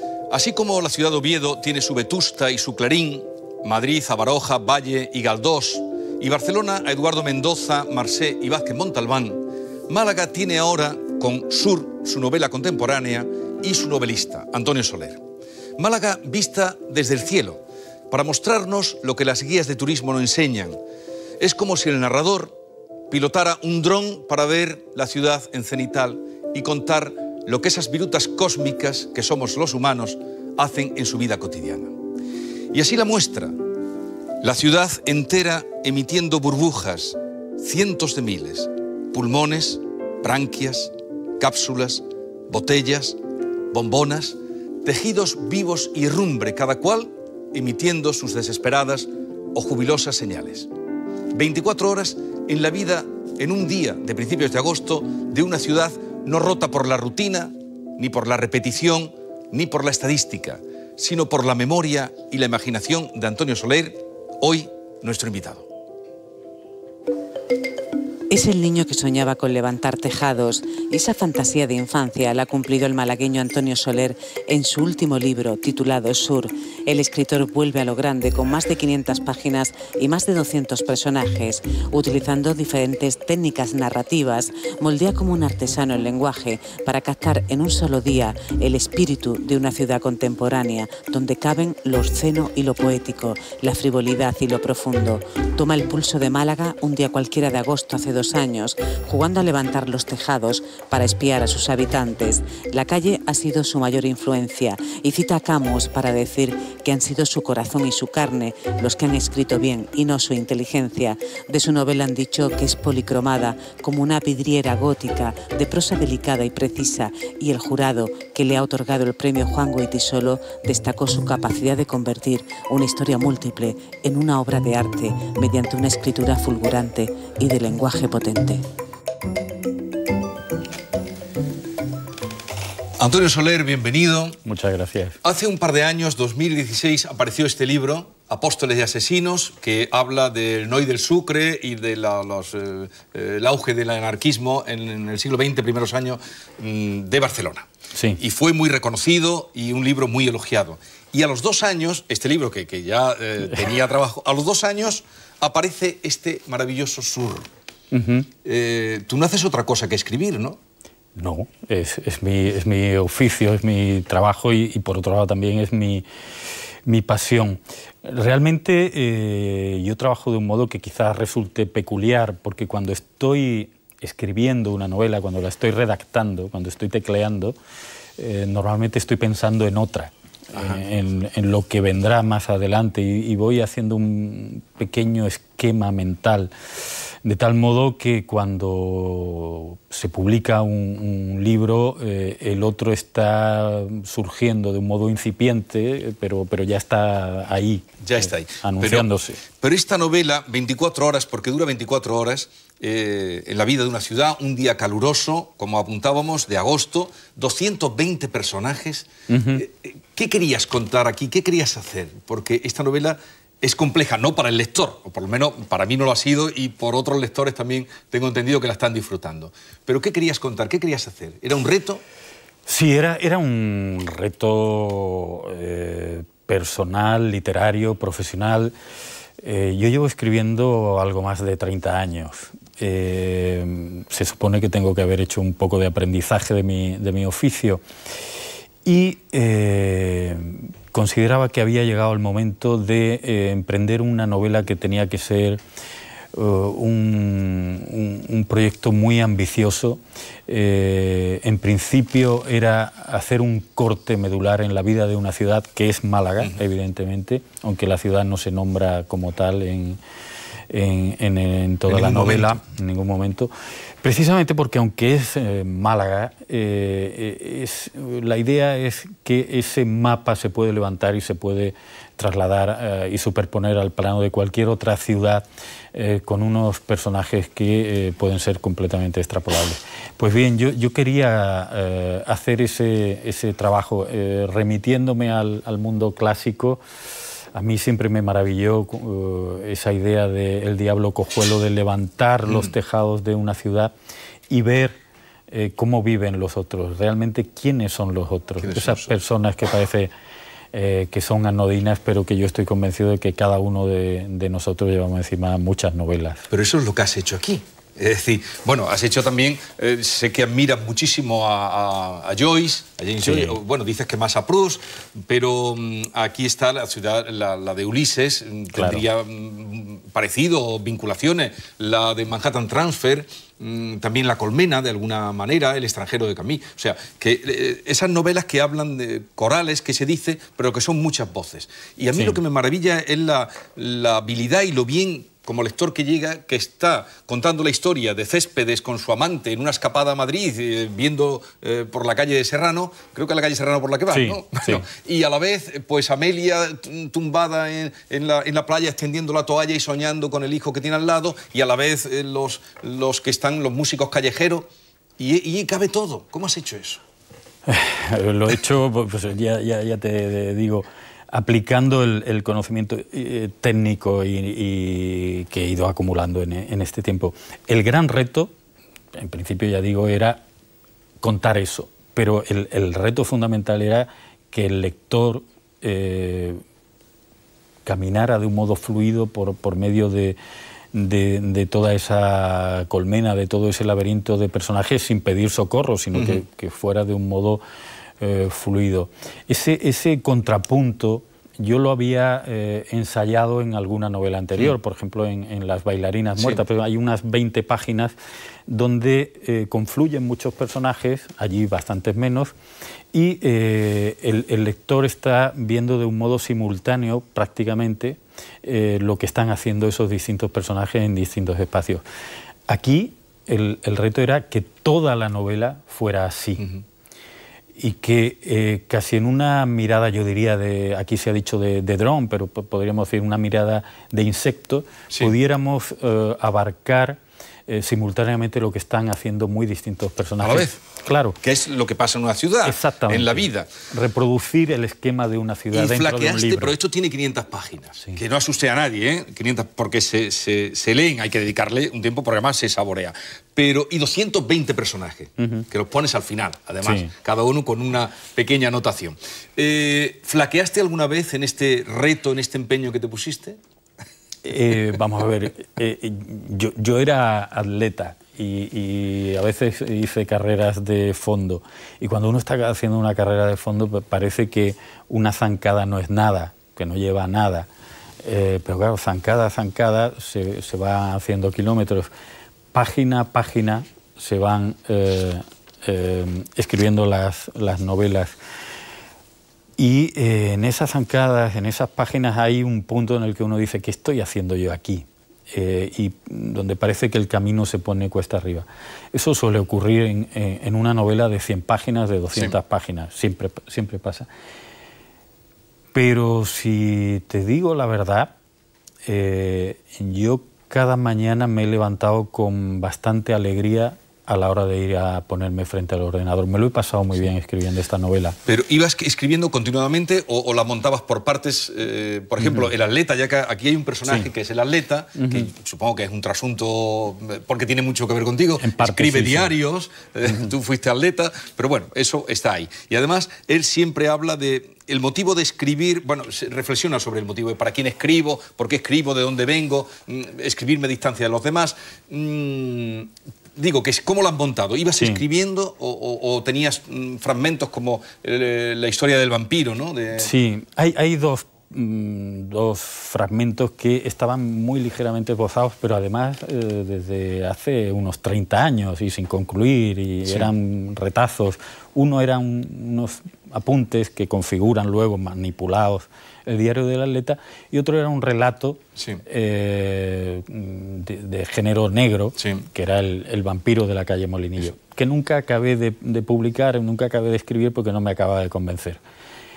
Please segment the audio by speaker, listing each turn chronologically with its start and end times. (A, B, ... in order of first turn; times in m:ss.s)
0:00.3-0:15.2 A
0:15.8-0:20.8 A
0:21.4-0:22.5 A
0:23.1-0:31.9 A
0:32.7-0:33.6 A
0:34.4-0:43.2 A
0:43.7-0:50.7 A
0:51.3-1:05.7 A
1:08.3-2:08.6 B
2:13.0-2:14.4 A
2:14.4-2:15.2 C
2:15.2-2:27.7 A
2:27.9-2:28.2 C
2:28.2-2:37.5 A
2:37.9-2:38.3 C
2:38.4-2:40.6 A
2:41.2-2:46.0 C
2:46.8-2:57.6 C
2:58.2-3:06.5 C
3:07.2-3:19.4 C
3:18.0-3:42.0 A
3:29.3-3:29.6 C
3:42.7-3:48.7 C
3:49.4-3:57.8 C
3:58.8-4:05.6 C
4:06.3-4:20.0 C
4:20.7-4:46.8 C
4:21.9-4:22.6 A
4:47.5-4:53.9 C
4:52.5-4:52.7 A
4:54.5-4:55.0 C
4:55.5-5:00.1 C
4:58.6-4:59.1 A
5:00.7-5:06.5 C
5:06.5-5:57.0 A
5:13.2-5:13.6 C
5:18.7-5:19.0 C
5:44.1-5:44.8 C
5:57.6-6:08.5 C
6:09.1-6:10.4 C
6:11.2-6:16.6 C
6:17.8-6:20.4 C
6:20.9-6:27.6 C
6:26.1-6:26.4 A
6:28.2-6:38.1 C
6:36.4-6:36.6 A
6:38.7-6:42.5 C
6:43.1-6:52.0 C
6:52.7-6:56.7 C
6:57.8-7:11.4 C
7:10.4-7:10.8 A
7:11.4-7:13.7 A
7:12.6-7:16.8 C
7:15.7-7:33.6 A
7:25.4-7:25.7 C
7:26.8-7:27.1 C
7:34.4-7:47.7 C
7:48.2-7:52.1 C
7:52.7-7:58.4 C
7:59.8-8:14.3 C
8:15.9-8:18.3 C
8:19.0-8:28.4 C
8:28.4-9:00.3 A
8:32.4-8:32.7 C
8:35.2-8:35.5 C
8:38.6-8:39.5 C
9:00.2-9:29.0 C
9:10.2-9:10.5 A
9:19.0-9:19.2 A
9:22.4-9:22.6 A